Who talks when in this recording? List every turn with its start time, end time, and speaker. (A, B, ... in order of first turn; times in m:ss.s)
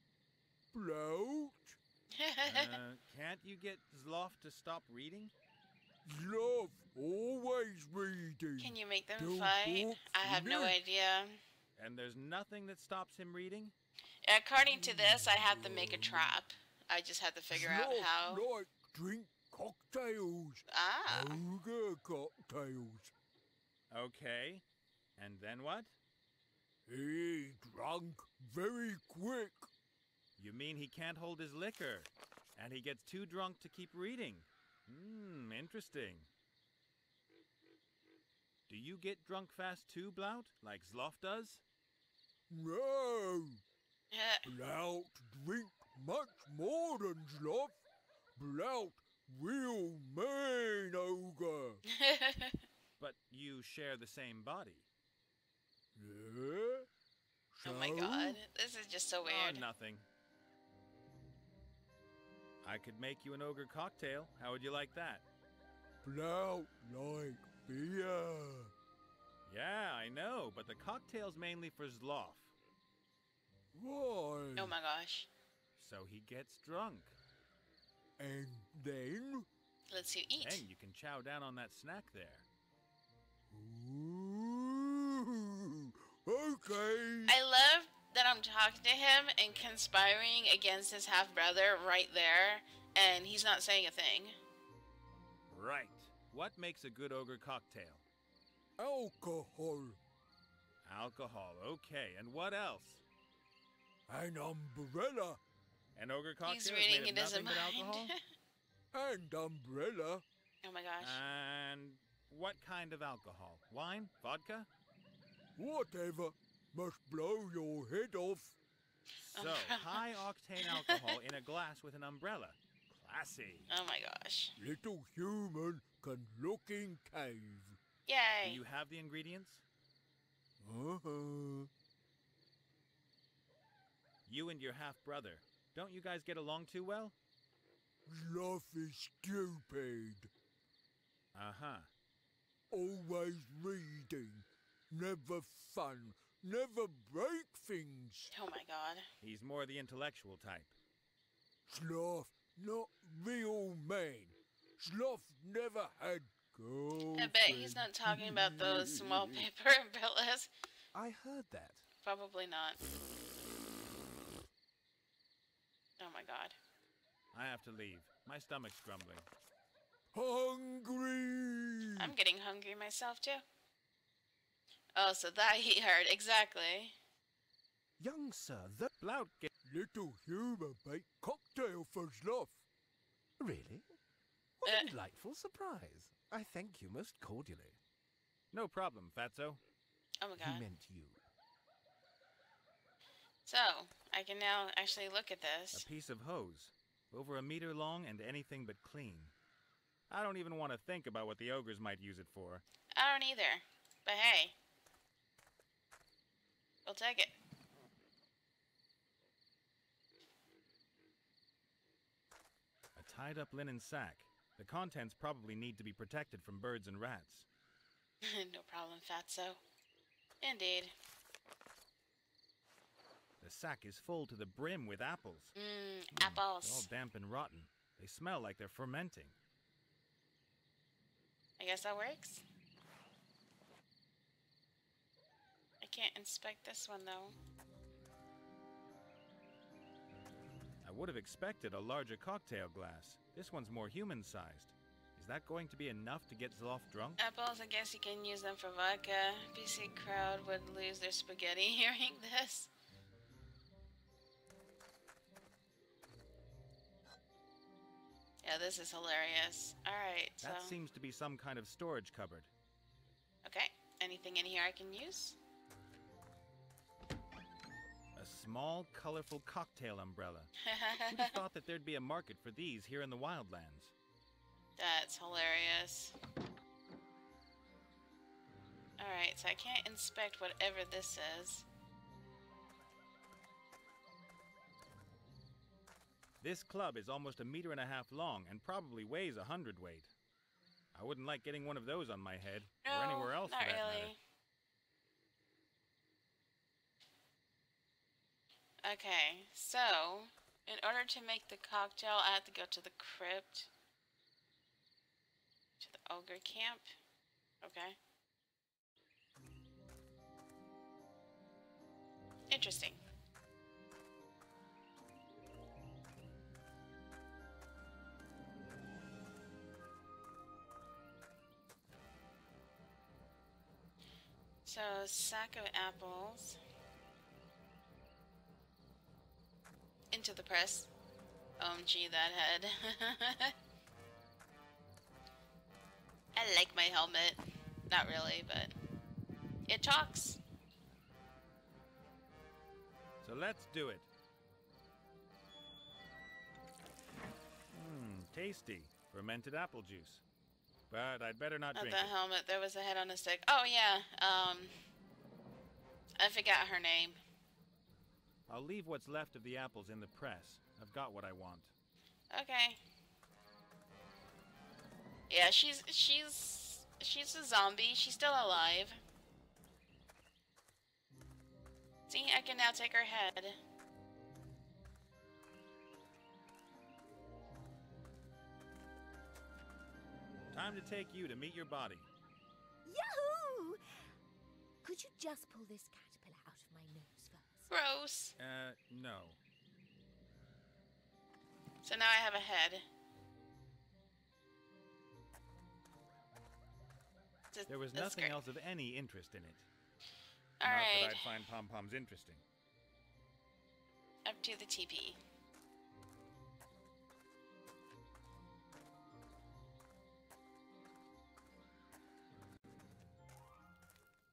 0:00.7-0:01.8 A
0:02.1-0:02.8 B
0:02.4-0:05.3 C
0:06.0-0:10.8 A
0:08.6-0:11.4 B
0:11.8-0:13.7 C
0:14.2-0:18.4 B
0:14.6-0:16.3 A
0:17.5-0:23.1 A
0:20.7-0:21.4 B
0:23.9-0:24.6 C
0:25.2-0:25.9 C
0:26.9-0:29.7 A
0:30.4-0:36.3 C
0:38.7-0:41.6 C
0:42.5-0:43.6 A
0:44.1-0:44.4 B
0:44.4-0:47.8 A
0:48.4-0:51.8 A
0:51.9-0:52.6 B
0:53.0-0:54.9 C
0:56.0-0:56.9 A
0:57.5-0:58.4 A
0:57.6-0:59.6 B
0:59.2-1:00.0 C
1:02.6-1:05.2 C
1:06.0-1:08.7 A
1:09.4-1:12.5 C
1:13.7-1:14.8 A
1:14.6-1:15.3 B
1:15.8-1:17.2 C
1:18.2-1:19.4 A
1:19.9-1:20.6 B
1:20.4-1:22.4 C
1:23.5-1:27.4 A
1:27.3-1:34.4 B
1:35.5-1:38.0 C
1:38.8-1:40.0 A
1:40.8-1:43.0 C
1:44.1-1:45.4 A
1:46.0-1:48.1 C
1:46.4-1:48.2 B
1:48.9-1:50.2 A
1:50.6-1:51.2 B
1:51.0-1:54.7 C
1:55.6-1:58.6 A
1:59.2-2:03.7 C
1:59.3-2:00.0 B
2:00.6-2:01.2 B
2:03.7-2:04.5 B
2:04.6-2:07.8 A
2:08.0-2:08.6 B
2:08.4-2:09.6 C
2:10.6-2:11.7 A
2:14.2-2:17.1 C
2:18.0-2:20.3 A
2:21.3-2:21.9 C
2:22.7-2:28.3 A
2:28.3-2:29.1 B
2:29.2-2:30.7 C
2:31.7-2:39.5 A
2:37.1-2:40.5 B
2:40.9-2:41.8 D
2:42.0-2:42.8 B
2:46.0-2:46.5 B
2:47.3-2:49.2 C
2:50.1-2:52.1 A
2:52.0-2:53.4 B
2:55.0-2:56.9 B
2:58.0-2:58.9 D
2:59.0-2:59.5 C
2:59.6-3:02.6 A
3:03.4-3:03.9 D
3:04.6-3:07.8 D
3:08.5-3:09.6 C
3:10.2-3:10.6 B
3:10.4-3:11.2 D
3:13.4-3:15.8 B
3:15.7-3:19.3 C
3:20.1-3:22.6 C
3:23.0-3:24.6 B
3:26.8-3:27.3 B
3:33.0-3:37.4 C
3:38.2-3:39.6 B
3:40.4-3:40.9 B
3:43.4-3:45.5 C
3:45.5-3:46.9 B
3:46.1-3:49.3 C
3:51.6-3:52.4 B
3:55.8-3:57.3 B
4:00.8-4:07.2 C
4:07.2-4:12.7 B
4:18.4-4:20.8 B
4:20.4-4:22.5 C
4:23.4-4:25.4 B
4:28.2-4:30.5 C
4:30.6-4:31.4 B
4:31.1-4:33.9 C
4:34.8-4:36.1 B
4:39.0-4:41.6 B
4:46.4-4:50.1 C
4:50.9-4:54.1 C
4:52.8-4:54.2 B
4:58.8-5:03.7 B
5:05.8-5:06.9 B
5:07.6-5:08.0 B
5:12.5-5:13.0 B
5:24.6-5:26.6 B
5:30.1-5:30.9 B
5:31.6-5:33.5 B
5:36.3-5:38.7 B
5:39.7-5:40.4 B
5:43.2-5:44.1 C
5:47.7-5:50.2 C
5:50.9-5:52.1 C
5:51.7-5:54.7 B
5:56.2-5:57.2 B
5:58.5-6:01.7 C
6:02.3-6:02.8 B
6:05.3-6:09.0 B
6:12.1-6:13.6 B
6:20.5-6:22.1 C
6:22.8-6:23.8 E
6:24.8-6:27.7 E
6:27.7-6:28.3 B
6:28.4-6:29.4 C
6:31.8-6:32.8 B
6:37.5-6:38.4 B
6:37.7-6:39.7 C
6:40.6-6:41.2 B
6:40.6-6:42.4 C
6:44.2-6:45.2 B